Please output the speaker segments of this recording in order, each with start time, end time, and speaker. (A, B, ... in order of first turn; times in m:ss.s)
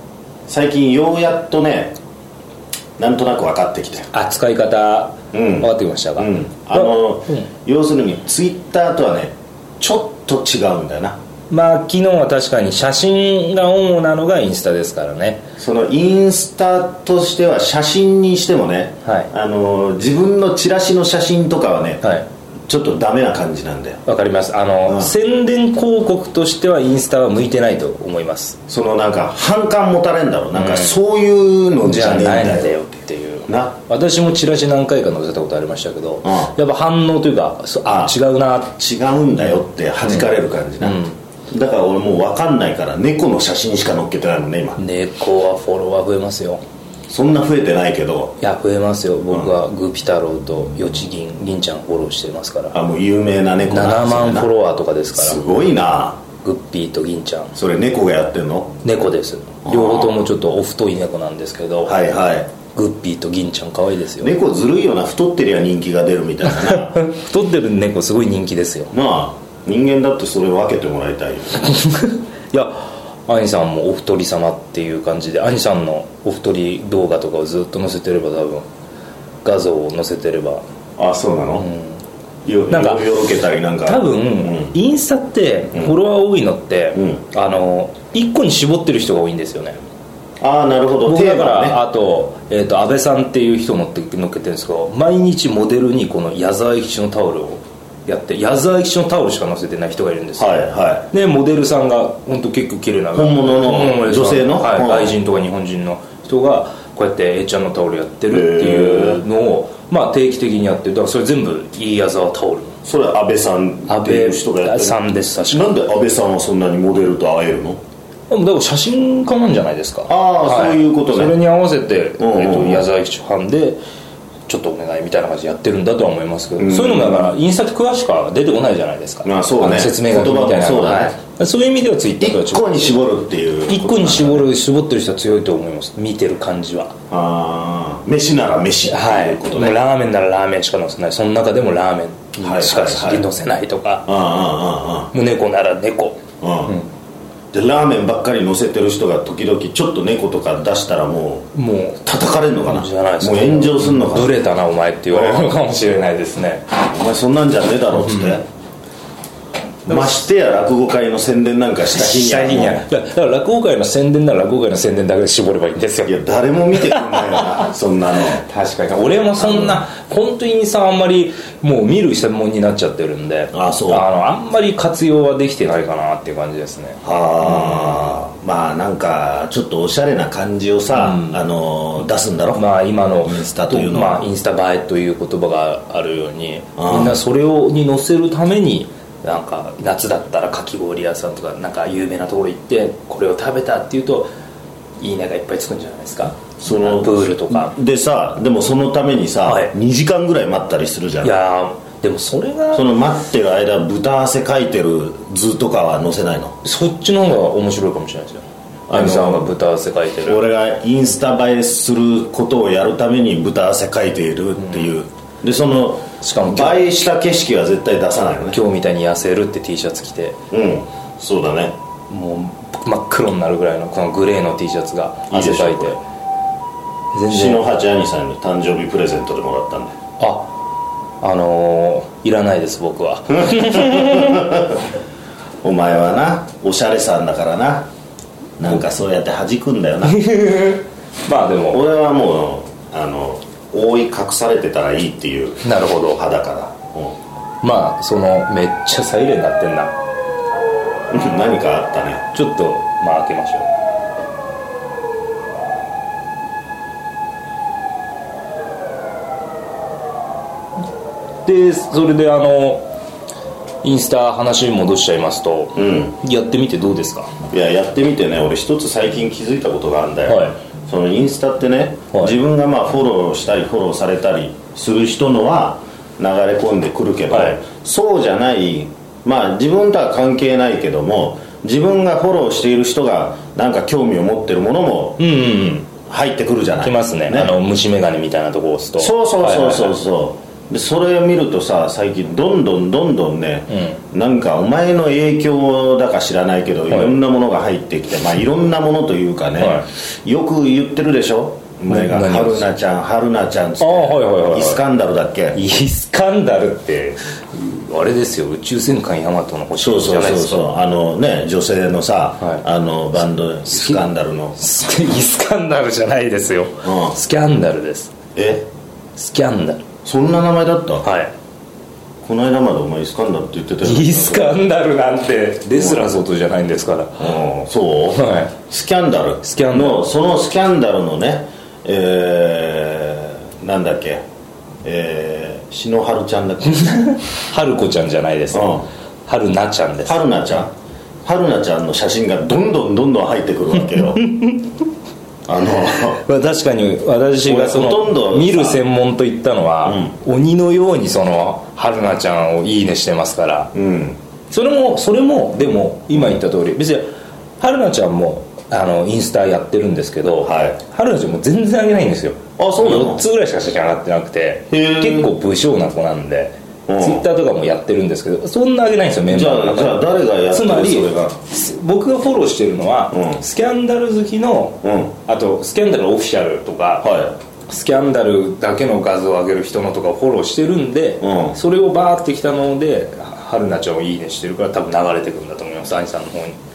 0:00.5-0:02.0 A
0:03.0-0:04.1 A
0:04.1-0:07.5 B
0:05.3-0:11.2 A
0:11.5-0:15.4 B
0:15.6-0:22.0 A
0:19.0-0:19.3 B
0:22.0-0:22.3 B
0:22.7-0:24.0 A
0:24.0-0:28.6 B
0:24.9-0:25.1 A
0:28.7-0:32.8 A
0:30.6-0:31.0 B
0:31.8-0:38.8 B
0:33.5-0:33.8 A
0:36.2-0:36.5 A
0:37.9-0:38.1 A
0:38.8-0:44.8 A
0:40.0-0:41.2 B
0:44.8-0:46.6 B
0:47.1-0:48.4 A
0:48.4-0:52.8 B
0:52.7-0:54.5 A
0:53.7-0:55.4 B
0:55.2-0:56.2 A
0:56.4-0:57.6 B
0:57.6-0:58.8 A
0:58.8-1:02.0 B
0:59.7-1:00.2 A
1:01.9-1:02.5 A
1:02.7-1:04.3 B
1:04.2-1:07.0 A
1:06.4-1:08.9 B
1:08.9-1:11.7 A
1:11.6-1:18.7 B
1:19.4-1:20.6 B
1:21.0-1:21.7 A
1:21.6-1:22.0 B
1:22.4-1:24.8 A
1:22.7-1:23.1 B
1:23.8-1:29.8 B
1:26.9-1:27.2 A
1:30.4-1:31.8 A
1:31.1-1:40.5 B
1:40.4-1:41.1 A
1:41.1-1:52.8 B
1:43.2-1:45.2 A
1:48.3-1:49.2 A
1:52.8-1:57.8 A
1:53.9-1:55.8 B
1:58.3-2:03.8 B
2:00.1-2:01.4 A
2:02.2-2:02.9 A
2:04.5-2:12.9 B
2:06.6-2:07.3 A
2:09.2-2:11.2 A
2:12.2-2:14.5 A
2:13.7-2:17.0 B
2:17.1-2:19.8 A
2:18.9-2:24.1 B
2:22.4-2:23.2 A
2:24.1-2:25.1 A
2:25.1-2:26.9 B
2:26.4-2:26.7 A
2:27.5-2:34.4 A
2:31.5-2:32.0 B
2:32.6-2:36.7 B
2:35.1-2:35.6 A
2:36.8-2:38.4 A
2:38.0-2:38.4 B
2:39.9-2:42.8 A
2:41.9-2:46.2 B
2:46.1-2:48.4 A
2:46.8-2:47.6 B
2:48.4-2:57.9 B
2:49.4-2:49.8 A
2:53.5-2:54.1 A
2:57.0-3:02.6 A
3:00.9-3:01.4 B
3:02.5-3:14.3 B
3:03.2-3:04.3 A
3:06.8-3:07.2 A
3:15.0-3:17.8 B
3:16.6-3:21.3 A
3:19.4-3:19.7 B
3:21.2-3:22.9 B
3:22.7-3:26.6 A
3:26.6-3:30.4 B
3:28.9-3:29.5 A
3:30.2-3:38.6 A
3:34.6-3:34.9 B
3:36.2-3:36.8 B
3:38.5-3:40.4 B
3:40.5-3:41.8 A
3:42.1-3:46.0 B
3:45.3-3:46.0 A
3:47.1-3:47.6 B
3:47.3-3:50.0 A
3:50.2-3:50.6 B
3:51.2-3:54.6 B
3:53.4-3:54.8 A
3:55.6-3:57.9 A
3:58.6-4:00.2 A
4:00.0-4:01.8 B
4:01.7-4:07.2 A
4:05.6-4:06.2 B
4:07.6-4:09.9 B
4:11.1-4:12.3 A
4:12.3-4:13.7 B
4:21.4-4:22.9 B
4:23.8-4:27.3 B
4:25.8-4:26.1 A
4:27.5-4:45.2 A
4:30.3-4:30.6 B
4:37.3-4:37.6 B
4:45.2-4:45.9 B
4:46.1-4:47.6 A
4:46.8-4:50.0 B
4:49.0-5:05.6 A
4:53.7-4:54.0 B
4:56.9-4:57.2 B
4:59.6-4:59.8 B
5:01.9-5:02.7 B
5:03.8-5:04.8 B
5:05.5-5:10.7 B
5:09.8-5:14.6 A
5:13.7-5:14.0 B
5:14.6-5:18.1 B
5:16.8-5:17.1 A
5:18.3-5:18.6 A
5:19.2-5:19.8 B
5:20.0-5:21.1 A
5:21.0-5:21.3 B
5:22.2-5:24.6 A
5:23.8-5:27.3 B
5:25.8-5:26.1 A
5:27.2-5:34.2 A
5:28.1-5:28.6 B
5:29.4-5:30.1 B
5:34.8-5:36.9 A
5:36.6-5:40.2 B
5:38.5-5:38.9 A
5:40.1-5:40.7 A
5:41.2-5:44.2 A
5:44.2-5:44.7 B
5:45.5-5:46.2 A
5:46.1-5:53.7 B
5:47.4-5:48.8 A
5:49.8-5:50.1 A
5:53.8-5:54.2 A
5:54.5-5:57.1 B
5:57.6-6:17.1 B
6:00.4-6:00.8 A
6:02.6-6:03.2 A
6:04.7-6:05.3 A
6:06.9-6:07.2 A
6:09.3-6:11.4 A
6:13.1-6:13.4 A
6:14.8-6:15.1 A
6:17.0-6:17.4 A
6:17.7-6:26.6 B
6:21.2-6:21.6 A